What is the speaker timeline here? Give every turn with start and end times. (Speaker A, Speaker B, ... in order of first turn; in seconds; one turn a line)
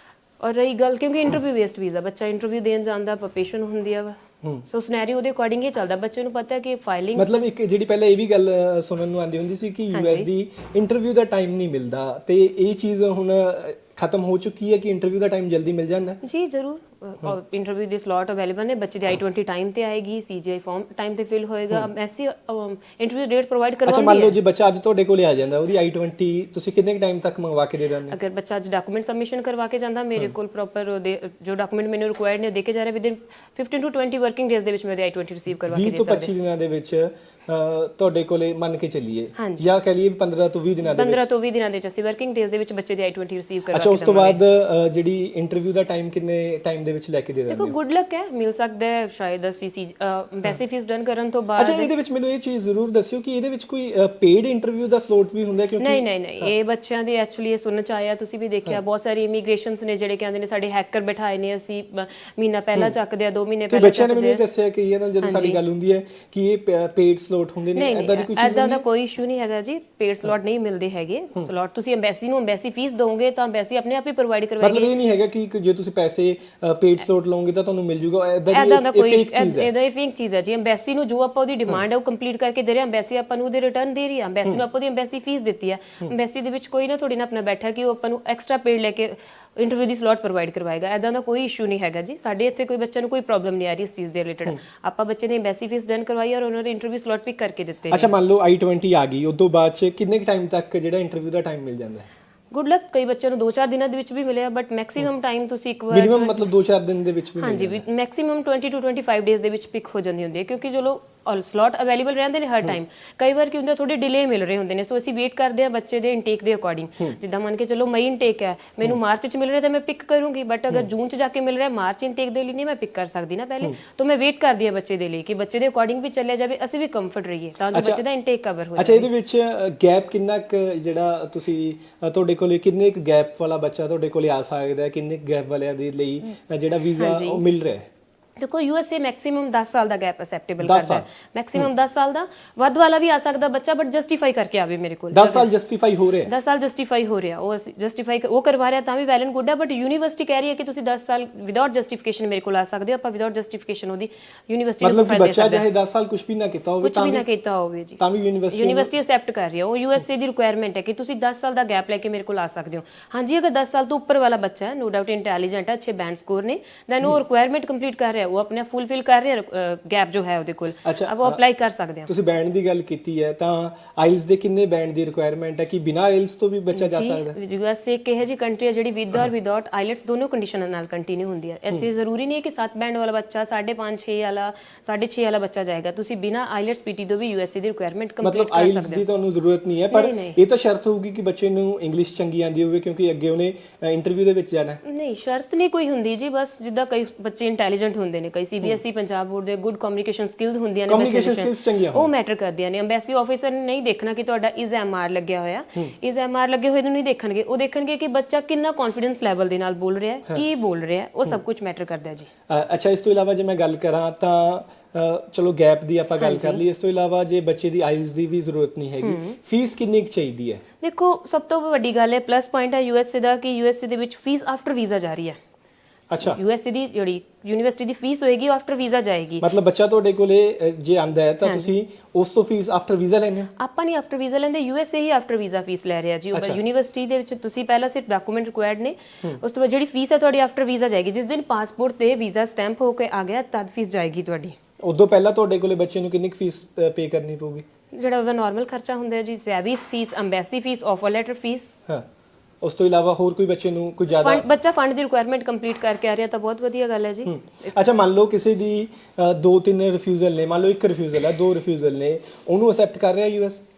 Speaker A: 0.4-4.2
Speaker A: 4.7-7.3
Speaker B: 7.2-16.2
Speaker A: 9.9-10.3
Speaker A: 16.2-24.4
Speaker B: 23.9-28.2
Speaker A: 28.1-36.3
Speaker B: 35.7-41.3
Speaker A: 39.4-39.6
Speaker A: 40.8-44.4
Speaker B: 43.7-47.8
Speaker A: 47.5-51.9
Speaker B: 51.6-56.5
Speaker A: 55.8-64.4
Speaker B: 63.7-68.8
Speaker A: 65.2-65.6
Speaker A: 67.8-74.9
Speaker B: 74.6-79.7
Speaker A: 78.5-98.1
Speaker B: 97.9-102.1
Speaker A: 102.5-106.5
Speaker B: 105.9-107.8
Speaker A: 107.4-129.1
Speaker B: 127.7-128.0
Speaker B: 128.8-137.9
Speaker A: 137.0-137.4
Speaker A: 138.4-145.5
Speaker B: 140.6-141.0
Speaker B: 145.1-146.3
Speaker A: 146.3-155.7
Speaker B: 154.8-157.2
Speaker A: 156.8-158.0
Speaker B: 158.0-158.9
Speaker A: 158.5-172.1
Speaker B: 170.8-171.4
Speaker B: 172.1-177.4
Speaker A: 176.7-189.0
Speaker B: 188.2-194.8
Speaker A: 189.9-190.4
Speaker A: 194.8-212.3
Speaker B: 200.9-202.1
Speaker B: 212.5-220.6
Speaker A: 216.2-216.6
Speaker A: 219.0-219.4
Speaker A: 220.8-225.4
Speaker B: 226.1-226.4
Speaker A: 226.2-229.4
Speaker B: 229.4-233.5
Speaker A: 233.6-244.6
Speaker B: 236.3-236.6
Speaker B: 244.8-247.7
Speaker A: 247.9-251.7
Speaker B: 252.6-254.4
Speaker A: 254.1-257.8
Speaker B: 257.3-263.6